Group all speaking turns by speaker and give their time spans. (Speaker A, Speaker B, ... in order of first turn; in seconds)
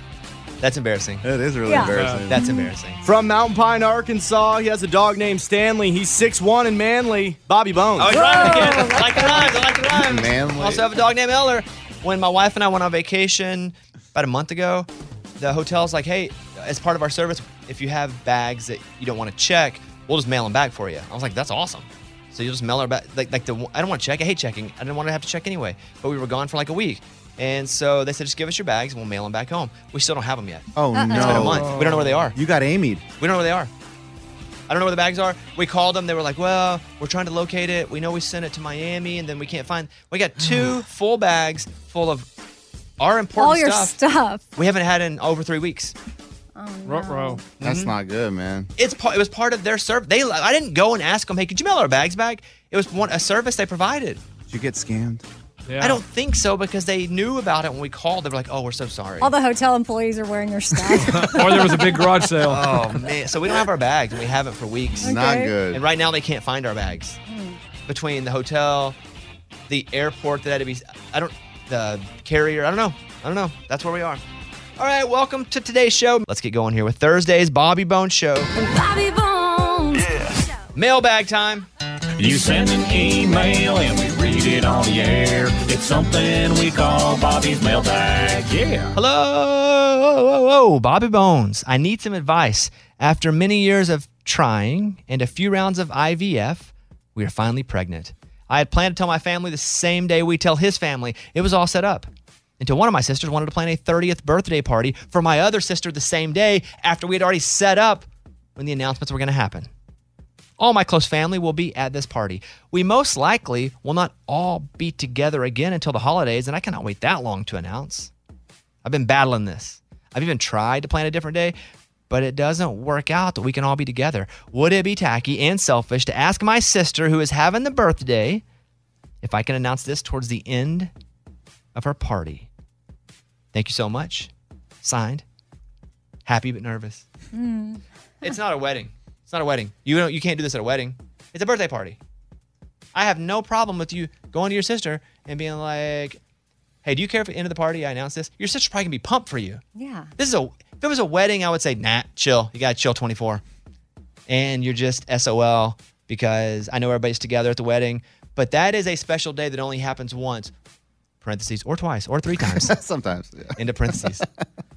Speaker A: 0.6-1.3, 2.3-3.0, 8.0-32.4, 33.2-33.7, 34.7-42.3, 43.0-43.9, 44.6-46.0, 47.6-47.9, 48.8-54.2, 55.8-59.3, 62.4-65.1, 65.7-67.2, 67.9-69.0, 69.7-74.2, 74.8-78.5, 80.7-81.7, 88.9-102.1, 102.6-109.7, 110.6-118.1, 118.8-121.5, 122.1-128.4, 129.2-130.9, 131.8-132.5, 133.5-134.3, 134.8-135.2, 136.3-137.1, 138.2-142.0, 142.9-146.2, 146.8-149.6, 150.2-153.4, 154.3-160.5, 161.2-162.7, 163.6-164.3
Speaker B: 1.2-2.4, 9.9-10.9, 30.8-33.0, 47.6-48.7, 54.5-55.2, 65.0-65.8, 162.4-164.2
Speaker C: 1.7-2.7, 8.1-9.5, 30.9-31.6, 43.4-44.4, 46.5-47.4, 59.2-62.1, 65.0-65.5, 67.3-67.6, 78.7-79.9, 137.3-137.8, 149.8-150.1
Speaker D: 1.9-2.3, 31.6-32.0, 46.9-47.4, 55.7-56.0, 61.0-62.9
Speaker E: 3.0-8.2
Speaker F: 82.2-89.0